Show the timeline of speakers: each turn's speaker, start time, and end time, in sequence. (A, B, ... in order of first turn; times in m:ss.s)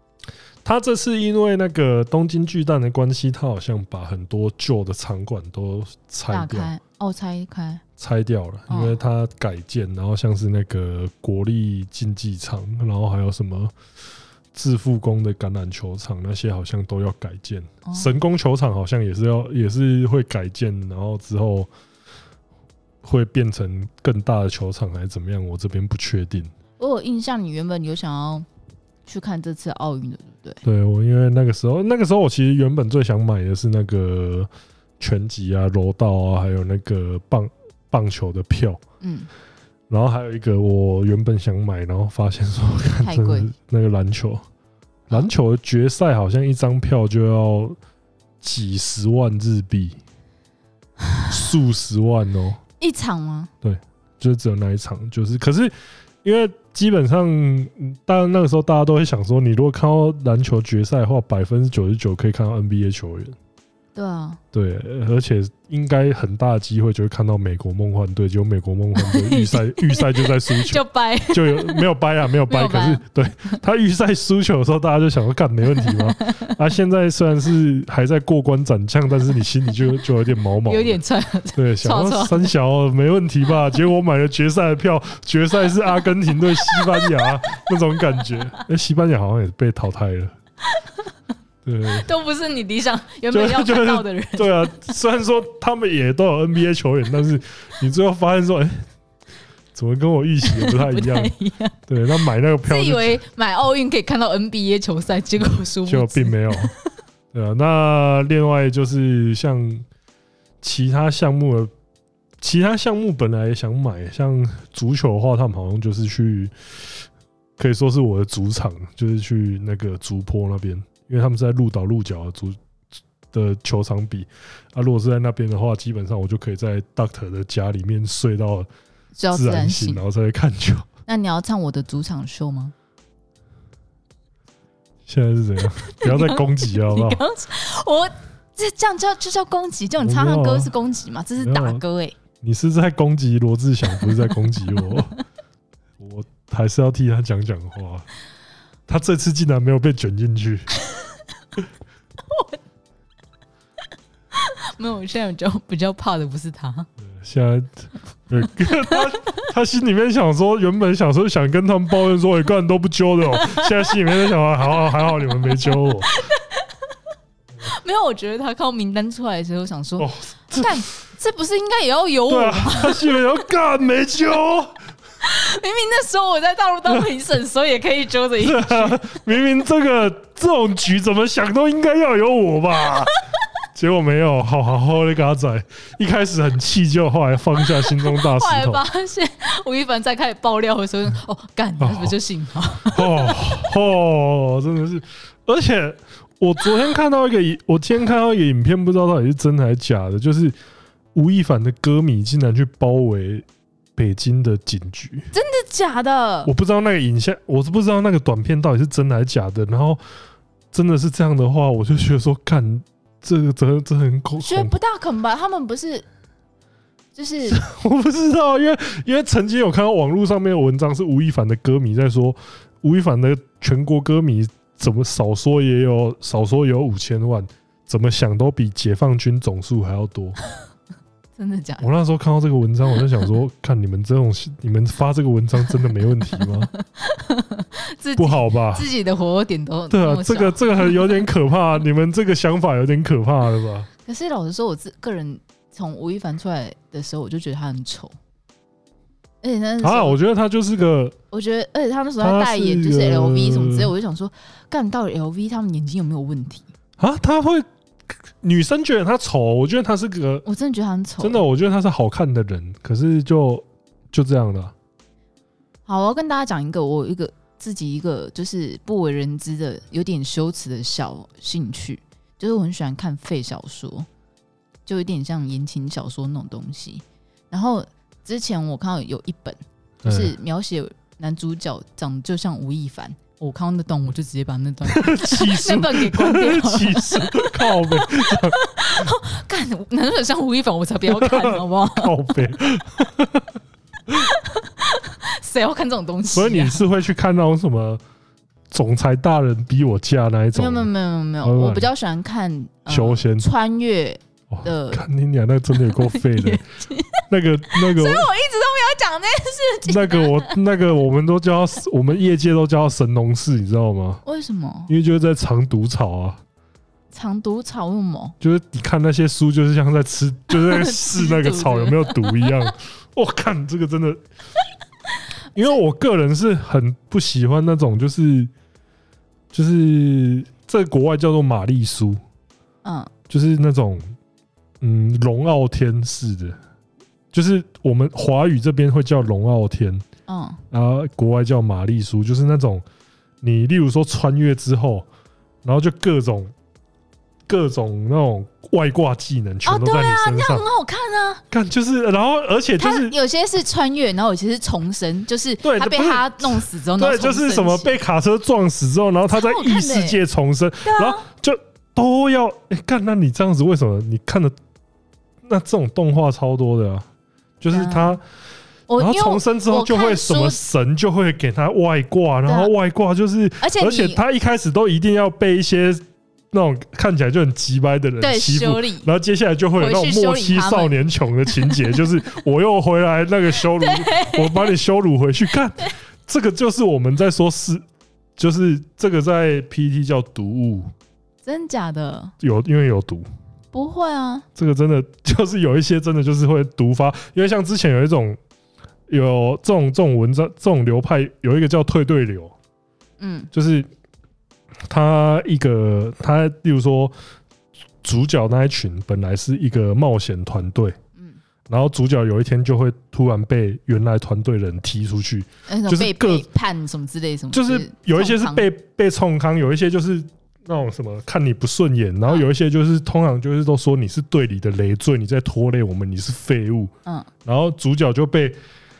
0:00.6-0:06.7 A
0:06.3-0:07.8 B
0:08.0-0:13.7 A
0:08.7-0:09.0 B
0:14.5-0:21.7 A
0:17.8-0:18.1 B
0:23.0-0:26.5 A
0:26.8-0:28.5 B
0:29.0-0:30.6 B
0:30.6-0:38.8 A
0:39.0-0:39.3 B
0:39.9-0:44.4 A
0:43.0-0:43.5 B
0:45.1-0:47.8 A
0:48.4-0:50.0 A
0:51.3-0:52.6 A
0:52.8-0:53.5 B
0:53.6-1:03.4 A
1:03.9-1:04.4 B
1:04.5-1:21.0 A
1:08.9-1:11.8 B
1:12.4-1:13.0 B
1:15.8-1:16.4 B
1:20.6-1:22.5 B
1:21.5-1:30.3 A
1:26.6-1:27.3 B
1:30.7-1:31.1 B
1:31.6-1:32.1 A
1:31.9-1:34.7 B
1:33.3-1:38.8 A
1:39.7-1:41.3 A
1:40.4-1:41.8 B
1:41.9-1:43.2 A
1:42.6-1:46.9 B
1:45.8-1:46.7 A
1:47.3-1:49.8 A
1:50.6-1:51.7 A
1:52.4-2:02.6 A
2:03.3-2:08.7 A
2:09.1-2:10.0 B
2:09.3-2:10.9 A
2:11.1-2:12.7 B
2:15.0-2:17.2 A
2:15.8-2:22.2 B
2:20.0-2:20.7 A
2:21.4-2:21.8 A
2:22.4-2:25.2 A
2:24.0-2:25.0 B
2:26.0-2:28.1 A
2:28.9-2:30.7 A
2:30.8-2:31.2 B
2:32.3-2:32.6 B
2:34.3-2:36.9 B
2:37.0-2:46.2 A
2:38.9-2:39.1 B
2:43.3-2:44.0 B
2:44.8-2:47.0 B
2:47.6-2:53.1 B
2:50.0-2:50.8 A
2:52.3-2:54.8 A
2:55.2-2:59.0 B
2:58.4-3:03.2 A
3:03.7-3:08.8 A
3:07.7-3:13.4 B
3:11.8-3:12.1 A
3:12.9-3:20.6 A
3:21.1-3:25.3 A
3:25.3-3:26.5 B
3:26.4-3:30.0 A
3:30.7-3:34.8 A
3:34.4-3:36.0 B
3:37.1-3:37.6 B
3:37.5-3:50.4 A
3:51.4-3:51.8 B
3:51.8-3:56.7 A
3:56.8-4:01.2 B
3:58.2-3:58.9 A
3:59.9-4:03.9 A
4:04.0-4:08.2 B
4:09.4-4:10.2 B
4:09.8-4:11.1 A
4:11.3-4:16.7 B
4:12.2-4:13.9 A
4:17.0-4:17.6 A
4:18.3-4:20.4 A
4:20.4-4:21.4 B
4:21.2-4:24.7 A
4:25.8-4:34.1 B
4:34.8-4:52.1 B
4:40.0-4:40.3 A
4:44.9-4:49.1 A
4:51.1-4:53.5 A
4:54.1-4:56.8 B
4:56.3-4:58.0 A
4:58.7-5:00.9 A
5:00.5-5:05.0 B
5:01.4-5:01.9 A
5:02.9-5:03.5 A
5:04.5-5:06.6 A
5:05.7-5:10.6 B
5:07.3-5:08.3 A
5:09.8-5:14.2 A
5:14.2-5:14.9 B
5:14.9-5:16.4 A
5:17.1-5:18.4 B
5:18.4-5:24.2 A
5:20.5-5:22.7 B
5:25.5-5:28.5 A
5:29.5-5:32.2 A
5:32.8-5:33.1 B
5:33.3-5:34.2 A
5:34.8-5:36.6 A
5:37.3-5:40.0 A
5:40.3-5:40.6 B
5:40.7-5:42.8 A
5:43.4-5:45.1 A
5:45.6-5:46.5 A
5:47.5-5:50.6 A
5:49.6-5:51.4 B
5:51.5-5:53.1 A
5:52.8-5:57.9 B
5:55.6-6:04.5 A
5:59.3-6:00.2 B
6:00.8-6:01.2 B
6:05.4-6:07.0 A
6:07.6-6:08.2 A
6:07.7-6:08.2 B
6:08.9-6:10.6 B
6:09.0-6:27.8 A
6:12.4-6:12.7 B
6:13.6-6:14.2 B
6:18.2-6:19.1 B
6:19.8-6:20.9 B
6:21.5-6:22.0 B
6:23.8-6:24.7 B
6:28.4-6:30.9 A
6:31.4-6:32.3 B
6:32.4-6:33.2 A
6:33.7-6:34.4 B
6:34.6-6:38.4 A
6:39.1-6:42.5 A
6:43.2-6:43.5 B
6:43.5-6:43.9 A
6:44.9-6:47.1 A
6:48.0-6:51.0 A
6:51.7-6:56.4 A
6:55.7-6:58.6 B
6:57.5-7:06.9 A
7:07.0-7:07.3 B
7:07.4-7:08.6 A